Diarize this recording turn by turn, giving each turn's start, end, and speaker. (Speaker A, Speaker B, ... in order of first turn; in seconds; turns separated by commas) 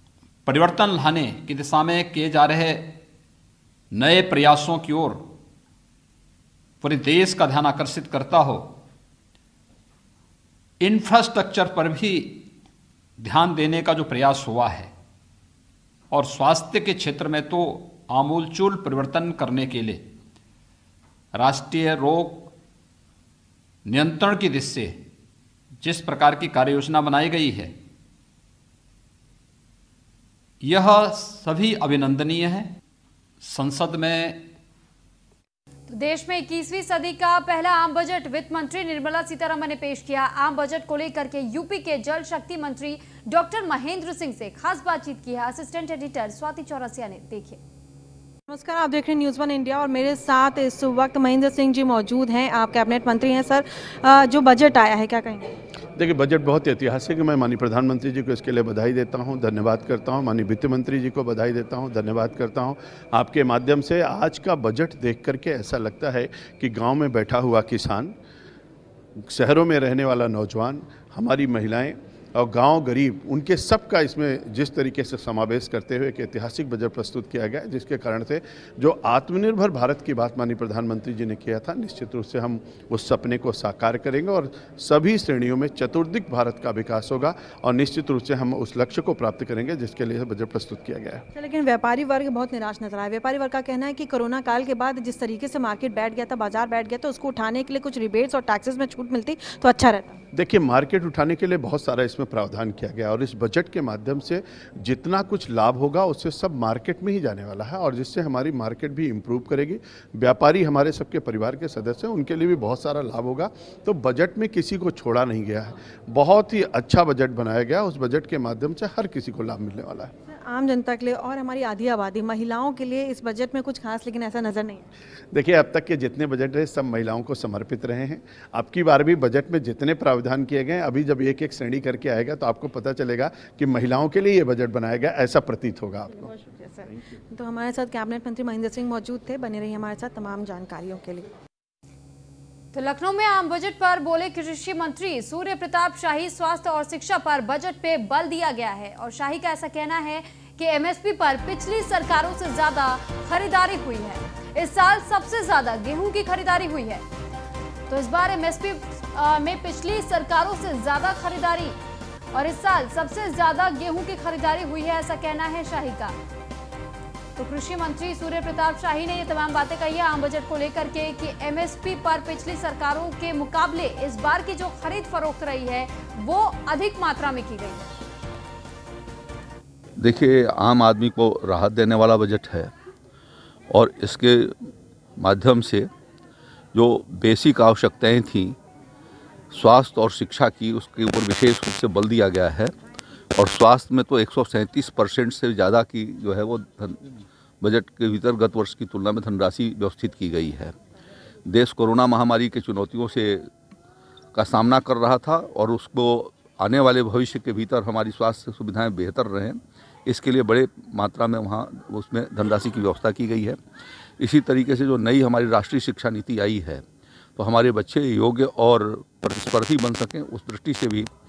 Speaker A: 0.5-3.0, Speaker A: 3.9-5.2, Speaker A: 6.8-8.7, Speaker A: 10.8-12.5, Speaker A: 13.2-14.9, Speaker A: 16.1-20.0, Speaker A: 21.4-22.5, Speaker A: 23.9-25.0, Speaker A: 25.8-27.7, Speaker A: 30.6-32.7, Speaker A: 33.4-34.5, Speaker B: 35.9-47.6, Speaker C: 48.5-55.5, Speaker D: 56.0-68.1, Speaker D: 69.3-91.2, Speaker C: 91.3-100.2, Speaker D: 100.3-120.1, Speaker C: 120.3-124.8, Speaker D: 125.3-136.3, Speaker C: 136.4-141.3, Speaker B: 142.7-157.0, Speaker B: 157.9-161.8, Speaker B: 162.3-166.2, Speaker B: 167.4-177.9, Speaker E: 180.0-182.7, Speaker E: 183.7-184.6, Speaker E: 185.2-185.9, Speaker E: 186.7-188.6, Speaker E: 189.5-192.7, Speaker E: 193.4-200.7, Speaker E: 201.5-203.5, Speaker E: 204.3-213.6, Speaker E: 214.2-216.8, Speaker E: 217.4-221.1